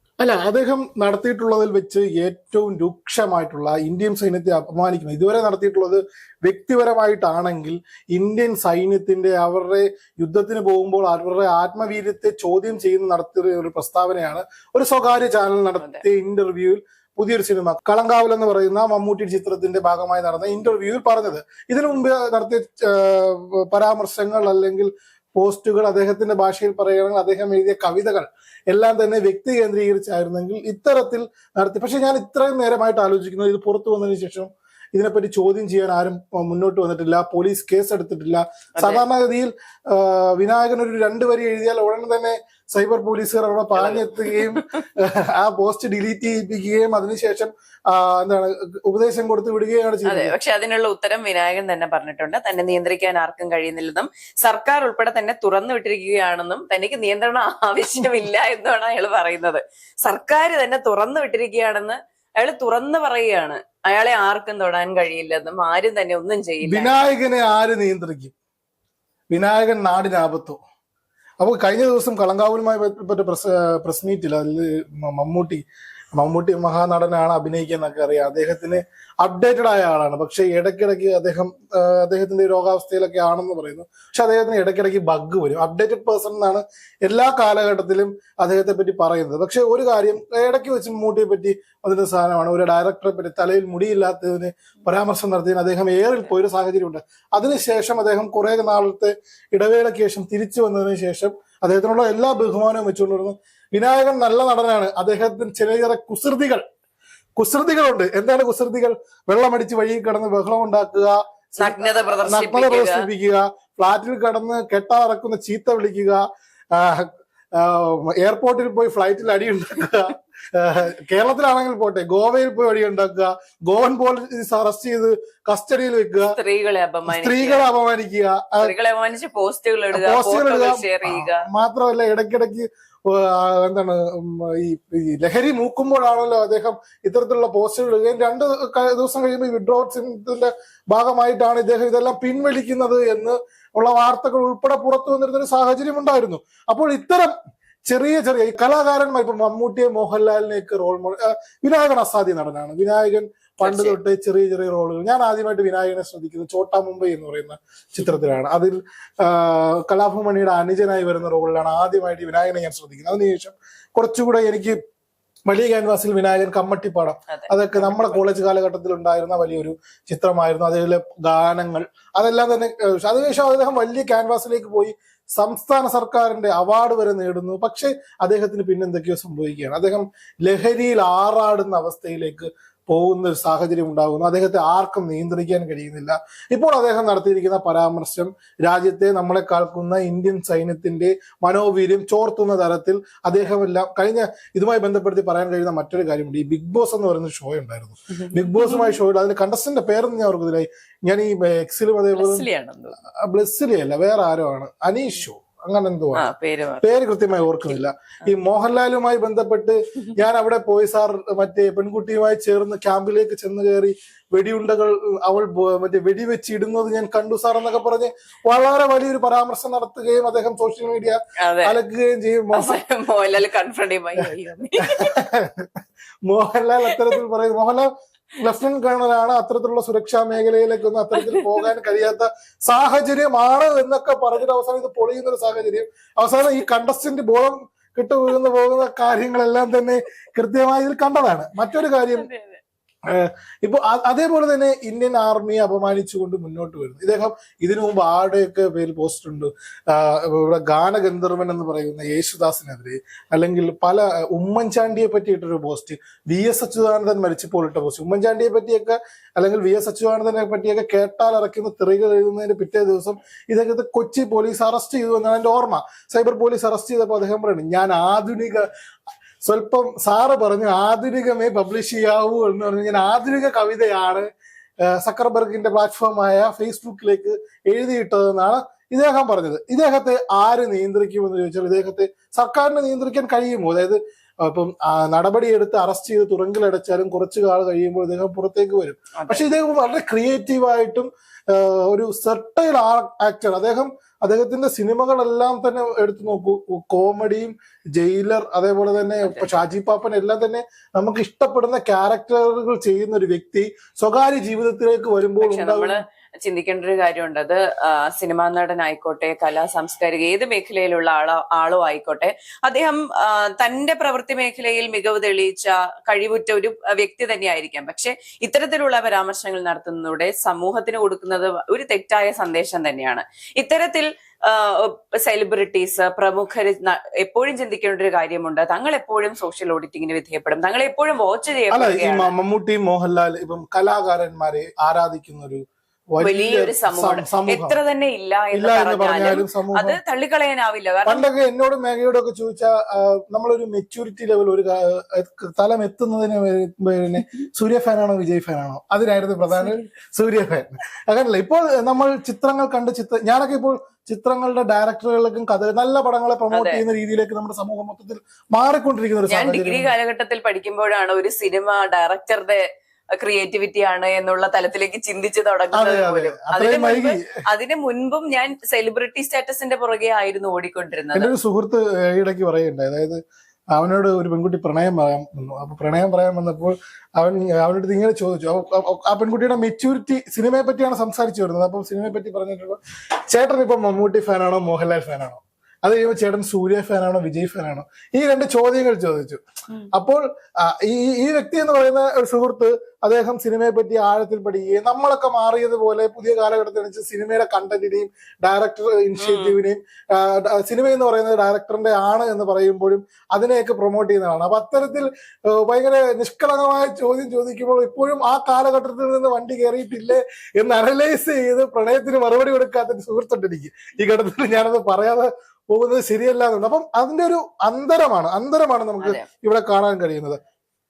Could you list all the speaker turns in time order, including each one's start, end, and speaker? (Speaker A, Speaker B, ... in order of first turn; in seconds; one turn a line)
Speaker A: 0.2-50.3
Speaker B: 38.8-39.0
Speaker B: 43.7-44.6
Speaker B: 50.0-66.9
Speaker A: 66.6-68.3
Speaker A: 69.3-70.6
Speaker A: 71.4-75.6
Speaker A: 76.2-106.6
Speaker A: 107.3-126.3
Speaker B: 111.6-113.0
Speaker B: 126.3-127.6
Speaker A: 127.1-128.7
Speaker B: 128.6-131.4
Speaker A: 129.9-147.3
Speaker A: 147.8-164.8
Speaker B: 153.6-154.0
Speaker A: 165.5-202.5
Speaker B: 167.3-168.2
Speaker B: 198.6-198.9
Speaker B: 202.1-202.9
Speaker A: 203.2-206.3
Speaker B: 206.1-206.8
Speaker A: 206.8-222.8
Speaker B: 221.4-221.8
Speaker B: 222.5-225.1
Speaker A: 224.8-225.7
Speaker A: 226.2-242.3
Speaker B: 242.1-242.6
Speaker A: 243.1-268.6
Speaker A: 269.4-274.3
Speaker A: 274.8-305.9
Speaker B: 289.1-289.4
Speaker B: 299.2-299.5
Speaker B: 305.4-332.3
Speaker A: 331.7-335.6
Speaker A: 336.1-337.8
Speaker B: 336.2-341.2
Speaker A: 338.5-340.0
Speaker A: 341.0-359.9
Speaker B: 356.5-356.8
Speaker B: 359.3-362.6
Speaker B: 363.2-371.3
Speaker A: 365.7-367.3
Speaker A: 371.1-373.2
Speaker A: 373.7-382.8
Speaker A: 383.3-389.4
Speaker A: 389.9-420.4
Speaker B: 399.2-399.6
Speaker B: 419.0-419.3